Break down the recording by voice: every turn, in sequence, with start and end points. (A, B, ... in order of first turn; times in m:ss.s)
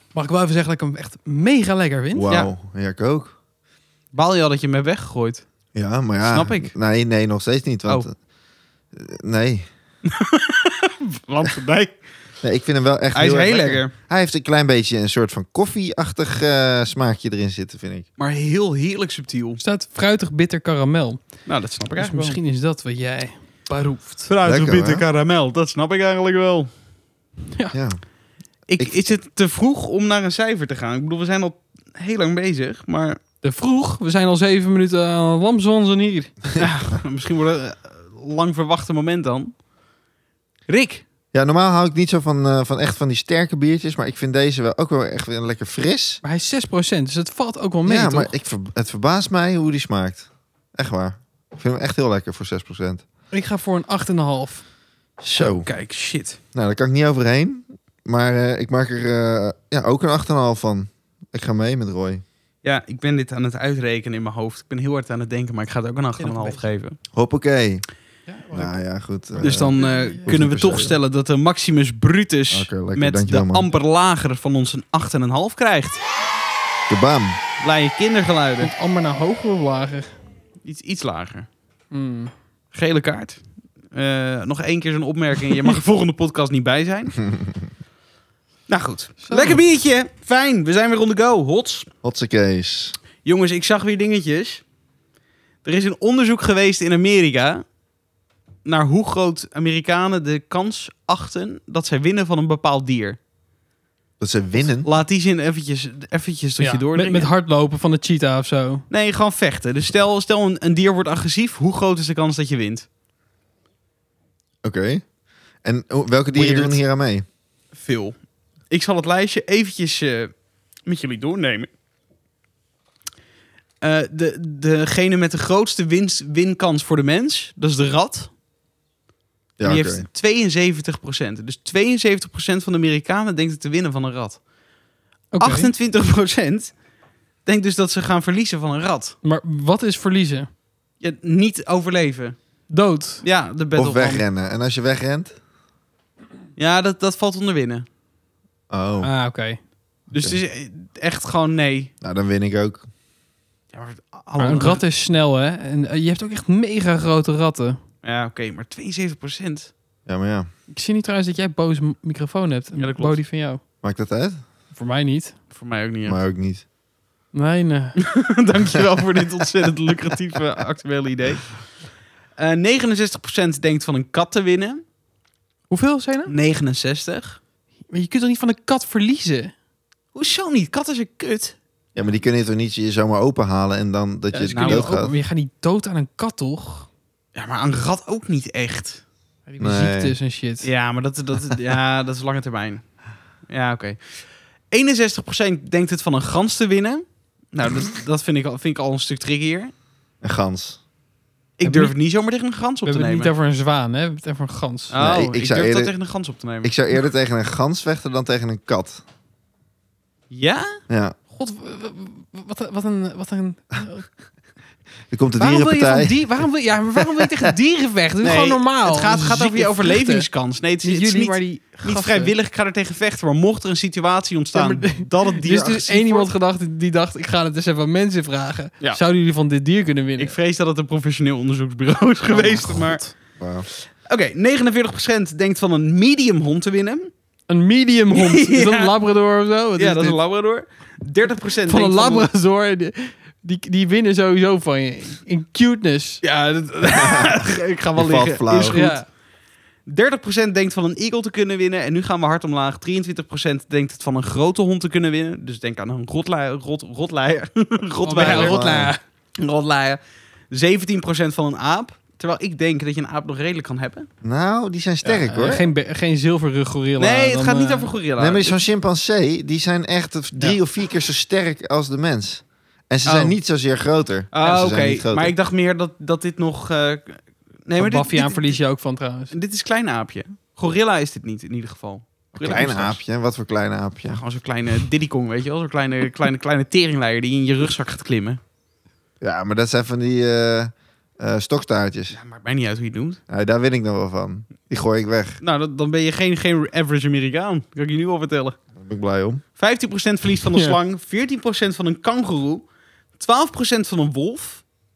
0:00.1-0:02.2 A
0:02.1-0:03.3 B
0:04.1-0:05.4 C
0:05.7-0:08.1 B
0:06.2-0:06.7 C
0:08.9-0:09.7 B
0:10.0-0:12.0 C
0:12.4-0:18.0 B
0:13.1-0:13.9 C
0:18.2-0:19.6 C
0:19.6-0:21.2 A
0:21.4-0:22.4 C
0:22.0-0:24.3 A
0:24.3-0:26.7 C
0:24.4-0:25.0 B
0:27.7-0:28.0 B
0:28.7-0:33.2 C
0:33.4-0:36.3 A
0:36.6-0:39.5 C
0:40.7-0:41.0 C
0:41.3-0:46.2 B
0:46.2-0:48.3 A
0:47.8-0:53.0 B
0:53.3-0:54.6 A
0:55.2-0:55.7 B
0:55.3-0:56.4 C
0:56.5-1:02.2 B
1:02.6-1:07.0 C
1:06.2-1:06.6 A
1:07.1-1:07.8 B
1:08.3-1:08.8 A
1:08.5-1:11.0 B
1:09.4-1:10.3 A
1:09.4-1:16.0 C
1:12.5-1:13.6 B
1:16.9-1:17.4 B
1:17.6-1:18.7 C
1:18.6-1:20.1 A
1:20.6-1:21.5 C
1:21.9-1:22.3 A
1:22.7-1:23.4 C
1:23.9-1:27.2 C
1:28.7-1:31.9 C
1:29.2-1:29.6 A
1:32.0-1:32.9 B
1:33.2-1:34.6 C
1:35.6-1:37.6 C
1:38.6-1:43.2 C
1:44.2-1:44.9 B
1:44.8-1:47.3 C
1:46.6-1:48.8 A
1:48.9-1:52.9 C
1:54.6-1:55.0 B
1:55.6-1:57.2 B
1:56.4-1:56.8 C
1:57.7-1:58.2 C
1:58.7-2:00.3 C
2:00.8-2:01.7 C
2:03.8-2:08.3 C
2:09.6-2:10.0 B
2:09.6-2:14.4 C
2:15.3-2:15.7 A
2:15.4-2:16.8 C
2:17.4-2:19.2 C
2:19.2-2:20.5 A
2:21.0-2:22.4 C
2:22.7-2:23.2 A
2:23.2-2:24.2 C
2:23.8-2:25.3 B
2:26.6-2:27.8 C
2:28.7-2:29.1 B
2:29.0-2:29.6 A
2:30.1-2:31.9 C
2:32.0-2:32.8 B
2:33.7-2:34.8 C
2:34.4-2:37.8 A
2:38.0-2:39.7 C
2:40.1-2:40.5 B
2:40.7-2:43.6 A
2:42.8-2:43.2 C
2:43.8-2:44.4 B
2:44.7-2:45.4 A
2:45.5-2:46.2 C
2:46.0-2:46.6 B
2:47.3-2:48.0 A
2:48.0-2:51.6 C
2:52.4-2:54.8 C
2:55.7-2:56.3 A
2:56.3-2:57.4 C
2:57.9-2:59.5 A
3:00.1-3:01.6 C
3:01.9-3:05.1 B
3:04.3-3:06.9 A
3:04.5-3:04.9 C
3:07.3-3:09.0 C
3:09.5-3:10.7 A
3:09.6-3:10.1 B
3:10.6-3:12.8 C
3:13.5-3:19.7 C
3:20.2-3:20.8 B
3:21.6-3:23.3 C
3:21.6-3:21.9 A
3:22.8-3:24.9 A
3:24.9-3:26.7 C
3:24.9-3:25.9 B
3:26.6-3:29.0 B
3:30.3-3:30.7 C
3:30.9-3:31.2 B
3:31.3-3:34.1 A
3:35.1-3:36.2 B
3:35.4-3:40.3 A
3:38.2-3:46.3 C
3:40.8-3:42.3 A
3:44.5-3:50.3 A
3:50.2-3:53.0 C
3:52.3-3:53.1 A
3:53.4-3:53.7 B
3:53.7-3:57.1 C
3:57.5-4:00.2 A
3:58.1-3:58.9 C
3:59.8-4:02.3 C
4:01.6-4:06.2 A
4:06.2-4:09.0 C
4:06.9-4:08.8 B
4:08.7-4:09.0 A
4:09.9-4:18.6 C
4:18.0-4:19.0 A
4:18.2-4:18.9 B
4:19.4-4:24.1 C
4:24.2-4:25.7 B
4:25.3-4:27.9 A
4:27.0-4:28.6 C
4:28.2-4:35.3 B
4:33.0-4:33.3 C
4:34.3-4:38.6 C
4:37.8-4:39.3 A
4:39.3-4:43.0 C
4:42.4-4:44.2 B
4:44.0-4:48.4 C
4:49.2-4:52.2 B
4:52.1-4:53.2 C
4:53.3-4:55.4 B
4:55.4-4:58.6 C
4:58.8-4:59.4 B
4:59.6-5:02.6 C
5:03.2-5:04.6 C